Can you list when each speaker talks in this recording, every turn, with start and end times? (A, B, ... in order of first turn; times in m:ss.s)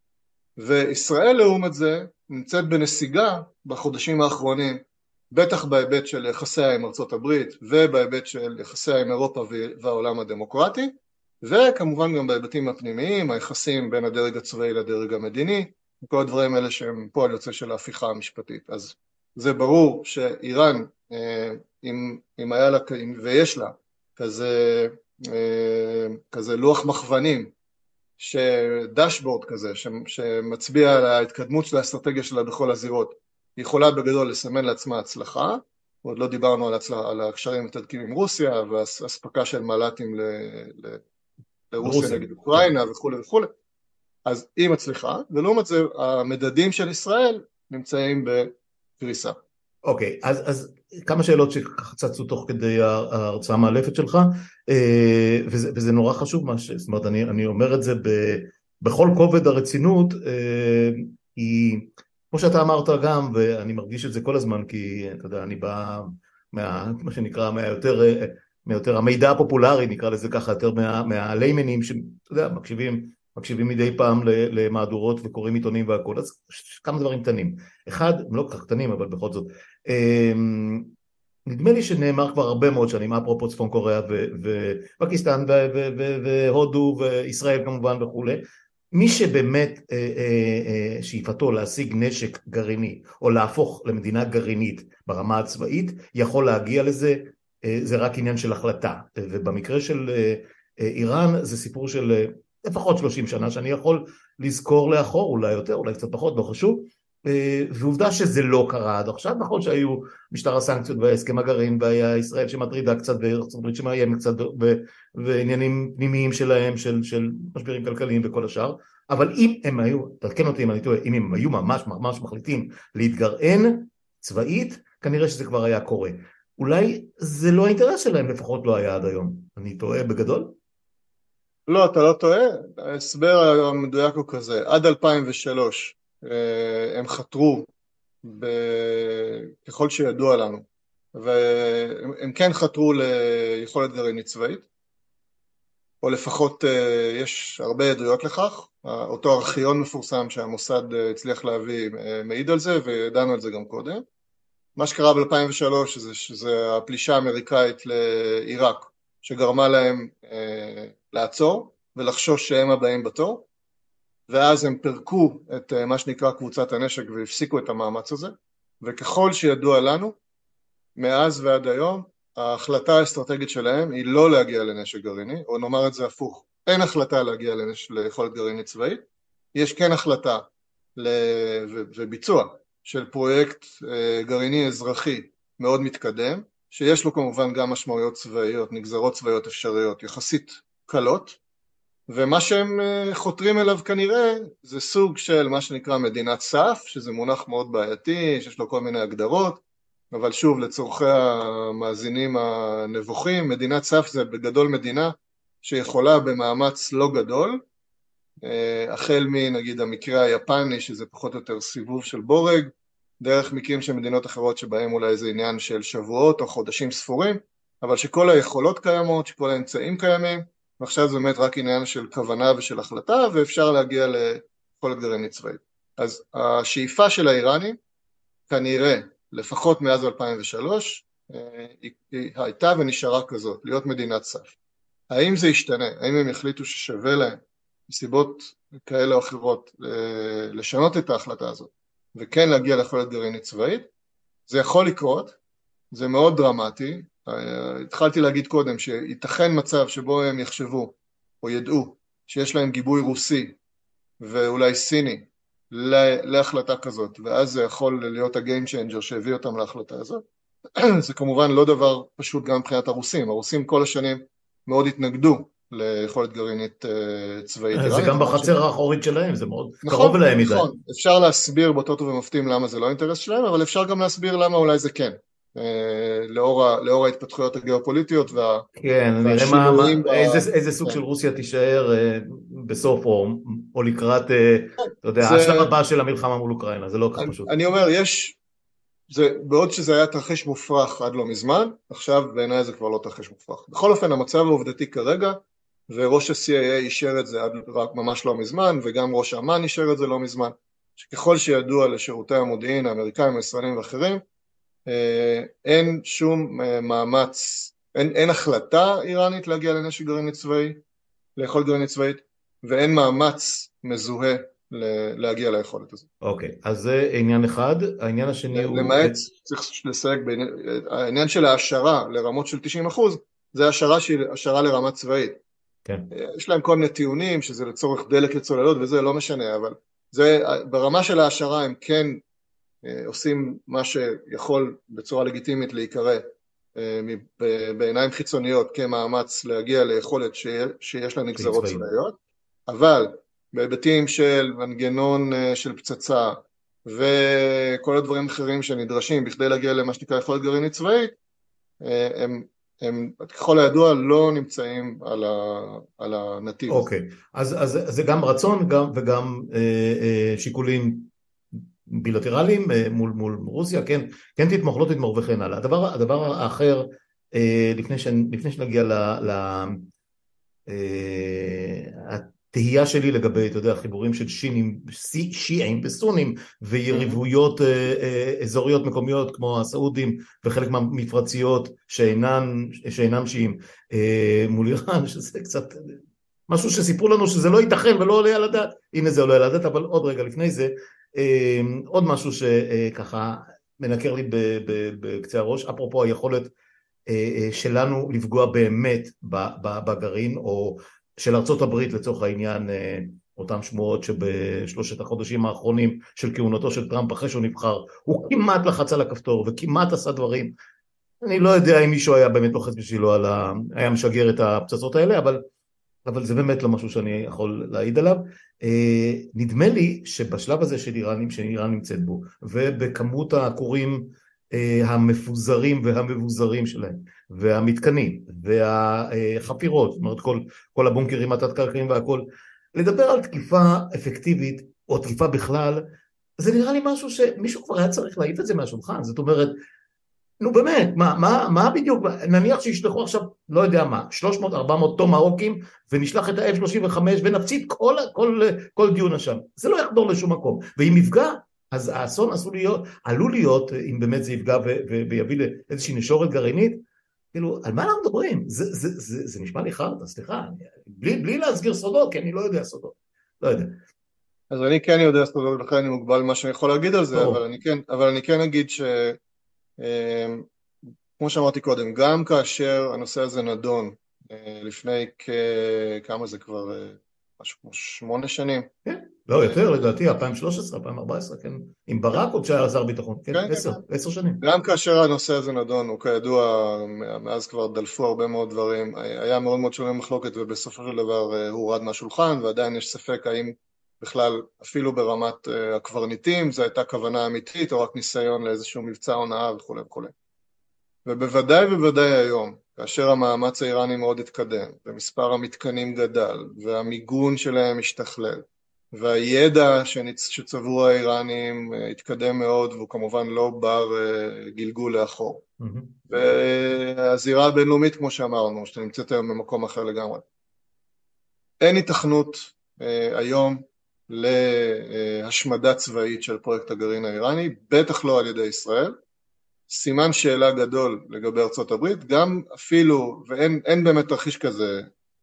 0:00.6-0:27.5 A
0:28.2-0:41.0 A
0:41.7-0:43.5 A
0:41.8-0:42.7 B
0:44.3-0:49.4 A
0:49.8-1:20.9 B
1:21.5-2:10.6 B
2:11.7-2:17.7 A
2:18.2-2:24.6 A
2:26.0-2:34.0 A
2:34.8-2:43.5 A
2:44.3-2:50.2 A
2:51.0-2:59.0 A
2:59.6-3:00.4 A
3:01.0-3:11.4 A
3:12.1-3:27.6 A
3:28.4-3:47.8 A
3:48.5-3:54.6 A
3:55.1-4:03.9 A
4:04.5-4:05.4 A
4:05.9-4:13.6 A
4:14.2-4:20.2 A
4:20.8-4:28.5 A
4:27.7-4:30.7 B
4:29.8-4:38.7 A
4:38.8-4:47.5 B
4:39.2-4:41.0 A
4:45.2-4:45.7 A
4:47.2-4:48.4 A
4:49.1-4:55.4 A
4:55.9-5:04.2 A
5:04.9-5:10.8 A
5:11.4-5:16.0 A
5:16.2-5:19.2 B
5:18.5-5:25.4 A
5:26.1-5:32.2 A
5:32.8-5:36.2 A
5:36.8-5:51.2 A
5:41.4-5:41.8 B
5:51.8-5:56.9 A
5:56.7-6:01.1 B
6:01.9-6:09.9 B
6:10.7-6:36.5 B
6:16.9-6:17.2 A
6:37.1-6:50.5 B
6:51.2-6:55.4 B
6:56.0-7:12.2 B
7:12.8-7:15.8 B
7:16.4-7:19.5 B
7:20.4-7:36.8 B
7:37.3-7:43.8 B
7:44.5-7:49.2 A
7:47.1-7:47.4 B
7:49.8-7:50.4 A
7:51.2-7:58.7 A
7:58.9-8:04.4 B
7:59.4-7:59.6 A
8:03.3-8:03.8 A
8:04.4-8:20.1 A
8:21.1-8:35.4 A
8:35.6-8:36.0 B
8:36.1-8:40.2 A
8:41.6-8:49.0 A
8:49.7-8:54.8 A